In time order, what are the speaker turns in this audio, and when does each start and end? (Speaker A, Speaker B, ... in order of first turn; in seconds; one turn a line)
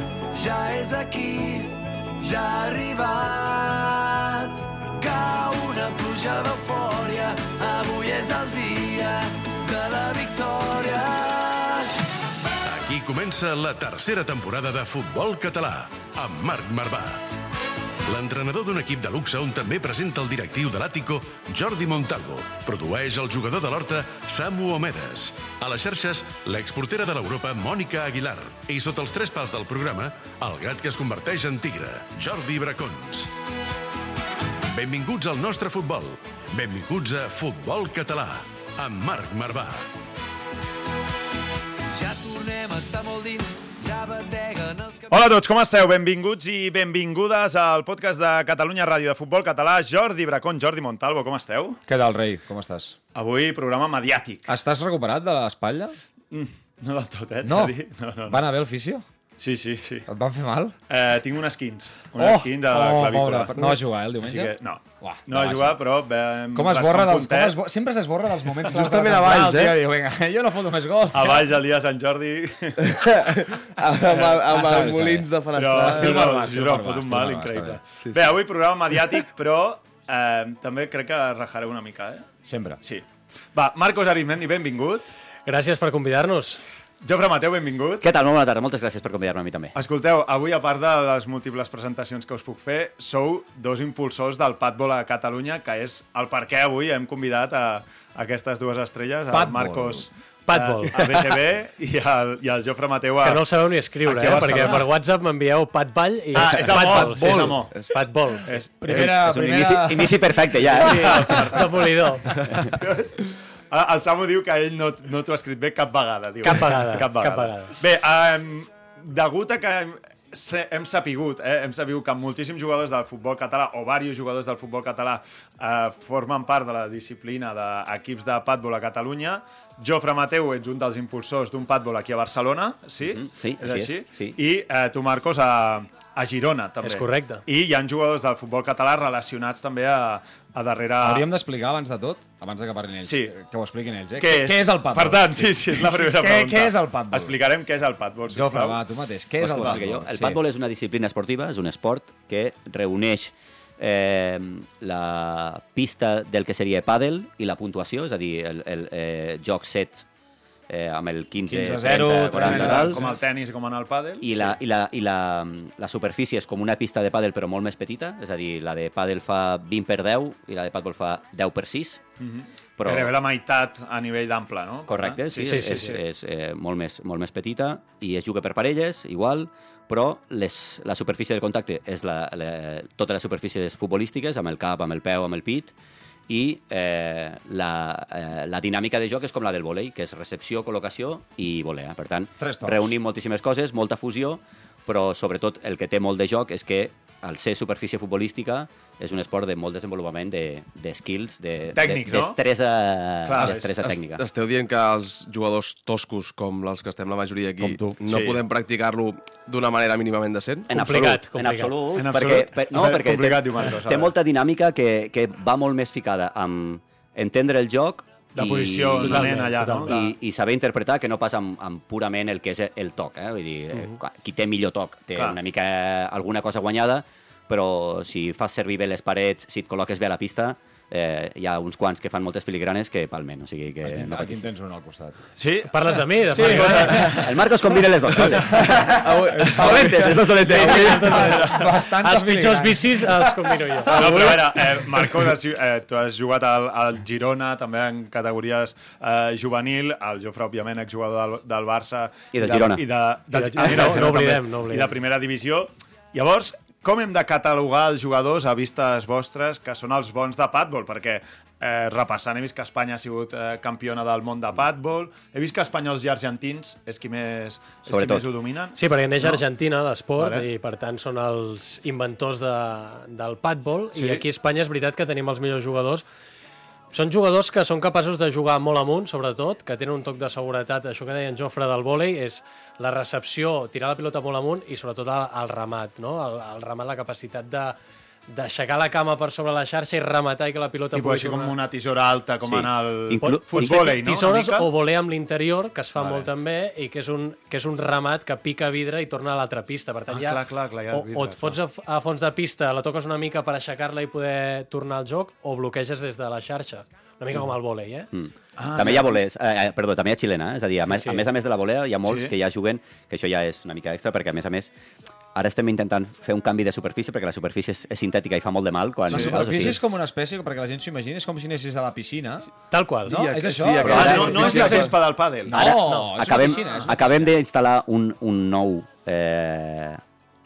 Speaker A: 0.3-11.9
Speaker B: 12.6-17.2
Speaker B: 18.1-33.3
Speaker B: 34.7-39.9
Speaker A: 41.9-45.2
Speaker C: 45.1-51.8
Speaker D: 51.9-53.0
Speaker C: 53.1-54.5
Speaker D: 54.5-55.9
Speaker C: 56.3-58.4
Speaker D: 57.4-57.8
Speaker D: 58.3-59.0
Speaker C: 59.4-60.0
Speaker D: 60.1-60.7
Speaker C: 60.9-67.6
Speaker D: 62.1-65.8
Speaker D: 66.5-71.5
Speaker E: 68.7-69.8
Speaker C: 71.1-73.0
Speaker E: 72.9-76.7
Speaker D: 73.8-77.8
Speaker C: 74.1-74.4
Speaker C: 75.5-82.3
Speaker E: 78.0-78.3
Speaker D: 82.4-82.8
Speaker C: 82.8-85.1
Speaker F: 85.5-86.6
Speaker C: 87.0-88.0
Speaker G: 88.0-89.7
Speaker C: 89.7-103.4
Speaker D: 99.3-100.1
Speaker F: 100.5-100.9
Speaker F: 103.2-108.5
Speaker C: 104.0-104.9
Speaker C: 106.3-107.8
Speaker D: 106.6-107.3
Speaker E: 107.2-107.8
Speaker C: 108.5-109.3
Speaker D: 108.8-110.5
Speaker G: 108.9-111.4
Speaker C: 110.7-113.2
Speaker F: 110.8-112.4
Speaker C: 113.7-141.2
Speaker F: 116.4-117.8
Speaker G: 133.0-134.4
Speaker F: 136.8-137.4
Speaker D: 141.0-147.4
Speaker C: 143.0-143.3
Speaker C: 144.2-148.8
Speaker D: 148.3-150.4
Speaker C: 149.4-149.8
Speaker G: 149.5-160.0
Speaker G: 160.7-163.0
Speaker D: 161.4-163.1
Speaker C: 162.3-164.5
Speaker G: 164.2-172.0
Speaker C: 172.2-176.0
Speaker G: 172.8-173.1
Speaker G: 174.9-185.7
Speaker F: 175.4-175.9
Speaker G: 186.3-204.2
Speaker D: 192.4-193.0
Speaker C: 201.7-202.4
Speaker C: 203.2-203.7
Speaker E: 203.7-210.7
Speaker D: 207.6-208.0
Speaker C: 208.1-208.4
Speaker F: 210.7-211.7
Speaker G: 210.7-234.5
Speaker C: 211.9-214.1
Speaker C: 218.3-219.9
Speaker F: 219.0-220.1
Speaker D: 233.8-235.2
Speaker C: 235.3-237.4
Speaker F: 235.7-237.1
Speaker D: 236.4-237.2
Speaker G: 237.1-241.2
Speaker D: 238.4-243.3
Speaker E: 239.0-240.1
Speaker F: 240.5-244.4
Speaker C: 241.2-241.7
Speaker C: 243.9-269.4
Speaker D: 243.9-244.4
Speaker G: 252.3-252.8
Speaker F: 253.3-254.9
Speaker G: 253.7-254.1
Speaker G: 267.9-268.3
Speaker F: 268.8-276.0
Speaker C: 270.2-270.5
Speaker C: 273.9-274.2
Speaker F: 276.9-287.8
Speaker F: 288.3-291.6
Speaker C: 290.9-294.7
Speaker G: 292.4-293.8
Speaker F: 293.2-308.1
Speaker C: 295.9-296.3
Speaker C: 300.1-301.6
Speaker G: 308.1-314.7
Speaker C: 308.6-309.1
Speaker F: 310.9-311.2
Speaker C: 312.0-312.3
Speaker G: 315.3-319.8
Speaker D: 319.1-322.5
Speaker C: 319.1-319.4
Speaker F: 322.7-323.3
Speaker D: 323.1-324.9
Speaker E: 323.1-325.0
Speaker G: 323.8-324.5
Speaker C: 323.8-325.7
Speaker D: 325.5-327.3
Speaker G: 325.5-330.0
Speaker F: 325.7-326.8